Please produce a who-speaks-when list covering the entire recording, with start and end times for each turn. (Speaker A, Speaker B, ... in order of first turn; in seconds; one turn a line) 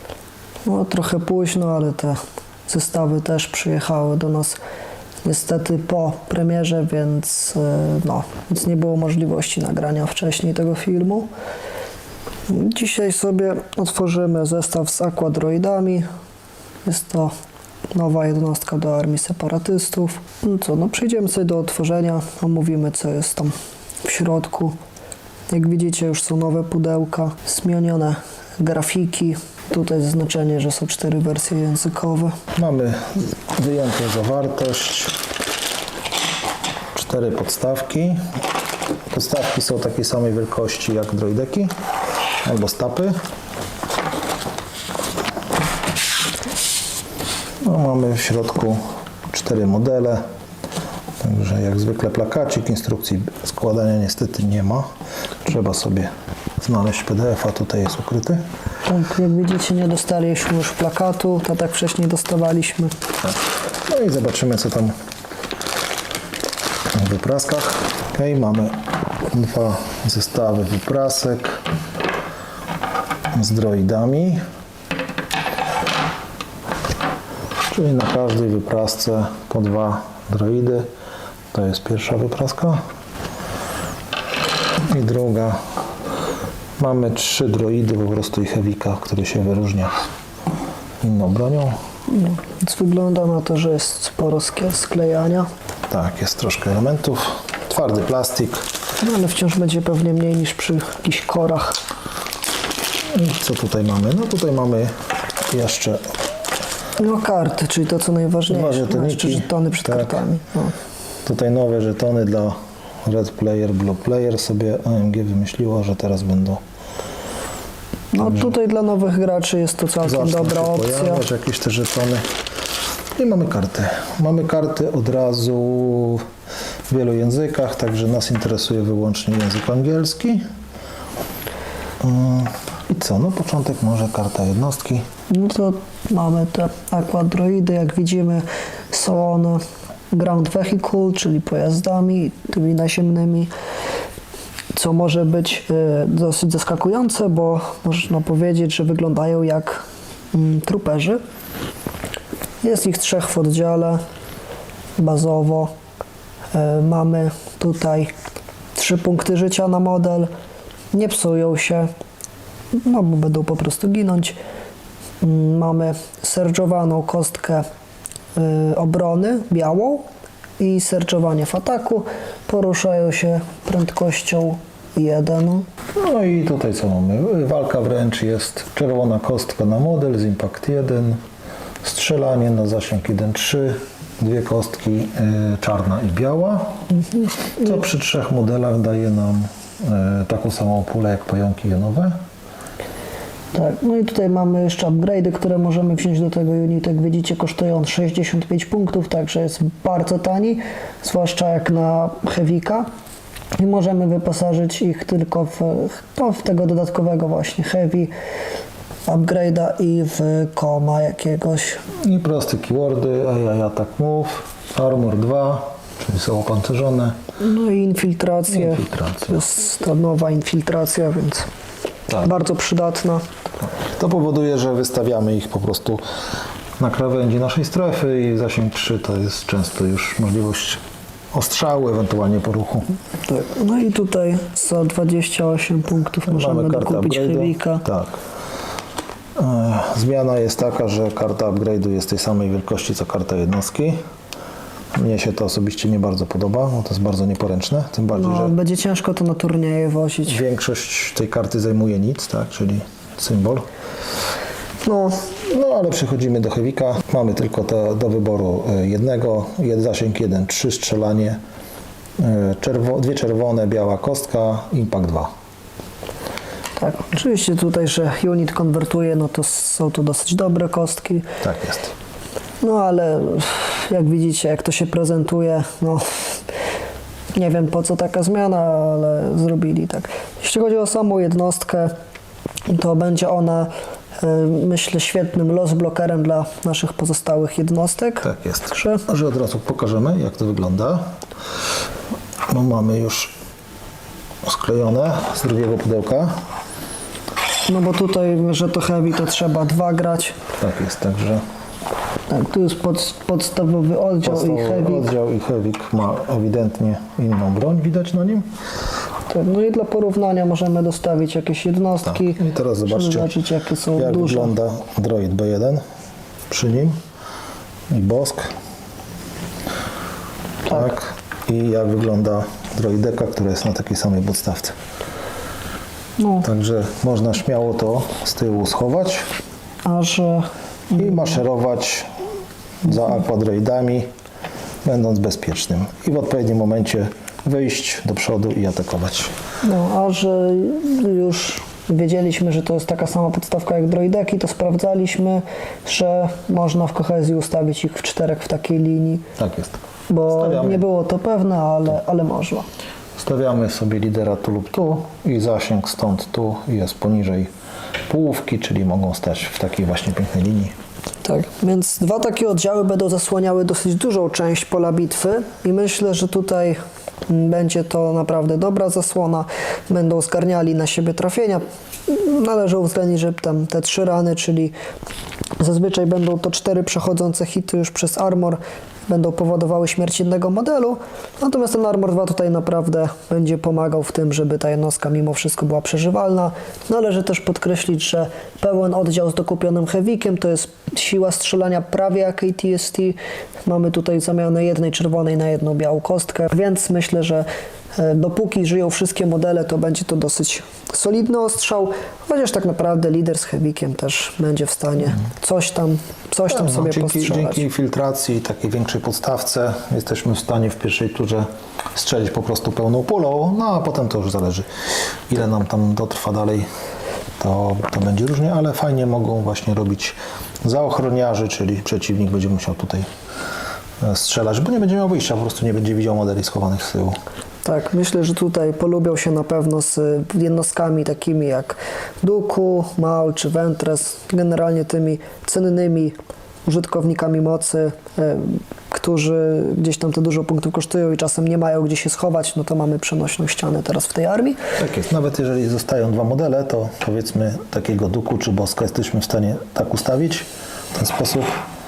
Speaker A: 0.7-4.6
Speaker A: 5.2-11.3
Speaker A: 12.5-16.1
Speaker A: 16.8-17.3
Speaker A: 17.9-24.8
Speaker A: 25.5-32.4
Speaker B: 32.5-35.2
Speaker B: 36.9-38.2
Speaker B: 39.1-41.7
Speaker B: 42.4-43.1
Speaker B: 47.6-50.2
Speaker B: 51.2-54.9
Speaker B: 55.5-56.1
Speaker B: 56.6-58.4
Speaker A: 58.8-62.9
Speaker B: 63.9-64.9
Speaker B: 66.9-68.8
Speaker B: 69.3-71.6
Speaker B: 73.3-74.4
Speaker B: 77.7-80.8
Speaker B: 81.5-82.8
Speaker B: 84.9-85.6
Speaker B: 86.8-89.9
Speaker B: 91.0-91.8
Speaker A: 92.1-95.5
Speaker B: 95.9-98.6
Speaker A: 99.0-101.8
Speaker B: 103.1-104.9
Speaker B: 105.5-106.0
Speaker A: 107.0-110.7
Speaker B: 108.5-110.2
Speaker B: 111.2-116.6
Speaker A: 118.1-121.2
Speaker B: 118.2-118.5
Speaker B: 120.0-122.2
Speaker B: 123.2-126.2
Speaker B: 126.9-130.4
Speaker B: 132.0-135.1
Speaker A: 135.3-143.5
Speaker A: 144.7-151.2
Speaker A: 152.6-154.0
Speaker A: 155.0-155.7
Speaker A: 156.5-158.1
Speaker A: 158.8-160.3
Speaker A: 160.9-161.9
Speaker A: 162.8-164.4
Speaker A: 165.2-167.6
Speaker A: 168.4-170.1
Speaker A: 170.6-175.7
Speaker B: 175.9-181.2
Speaker B: 181.8-186.8
Speaker B: 187.5-192.1
Speaker A: 193.5-202.9
Speaker A: 203.6-208.1
Speaker A: 209.1-211.8
Speaker B: 212.0-217.2
Speaker A: 217.4-221.5
Speaker B: 218.5-219.4
Speaker A: 222.2-223.2
Speaker B: 223.6-226.0
Speaker B: 226.8-230.8
Speaker B: 231.3-232.9
Speaker A: 233.2-237.8
Speaker B: 236.3-238.2
Speaker B: 239.4-244.0
Speaker B: 244.9-248.5
Speaker A: 248.1-250.4
Speaker B: 250.2-253.7
Speaker A: 254.8-255.2
Speaker B: 255.5-261.4
Speaker B: 262.2-265.3
Speaker A: 266.8-271.3
Speaker B: 271.4-271.9
Speaker A: 272.6-276.4
Speaker A: 277.3-281.9
Speaker A: 282.7-289.0
Speaker B: 288.2-291.1
Speaker B: 292.5-293.3
Speaker B: 294.4-296.3
Speaker A: 297.7-300.4
Speaker B: 300.6-301.4
Speaker A: 302.3-305.1
Speaker B: 304.2-308.5
Speaker A: 309.3-314.5
Speaker B: 312.1-313.3
Speaker B: 313.9-315.8
Speaker B: 316.5-316.9
Speaker B: 317.9-318.5
Speaker B: 320.7-324.8
Speaker A: 326.2-326.4
Speaker B: 326.4-329.2
Speaker A: 329.8-331.4
Speaker B: 330.9-332.1
Speaker B: 332.8-334.1
Speaker B: 334.8-339.3
Speaker A: 339.6-349.2
Speaker B: 349.4-349.8
Speaker A: 350.1-352.7
Speaker B: 350.3-350.8
Speaker B: 353.2-357.5
Speaker B: 358.1-360.7
Speaker A: 361.2-374.7
Speaker A: 375.6-407.6
Speaker B: 406.5-414.7
Speaker B: 415.3-416.7
Speaker B: 417.4-423.1
Speaker B: 424.0-427.2
Speaker A: 427.6-444.6
Speaker B: 444.8-451.5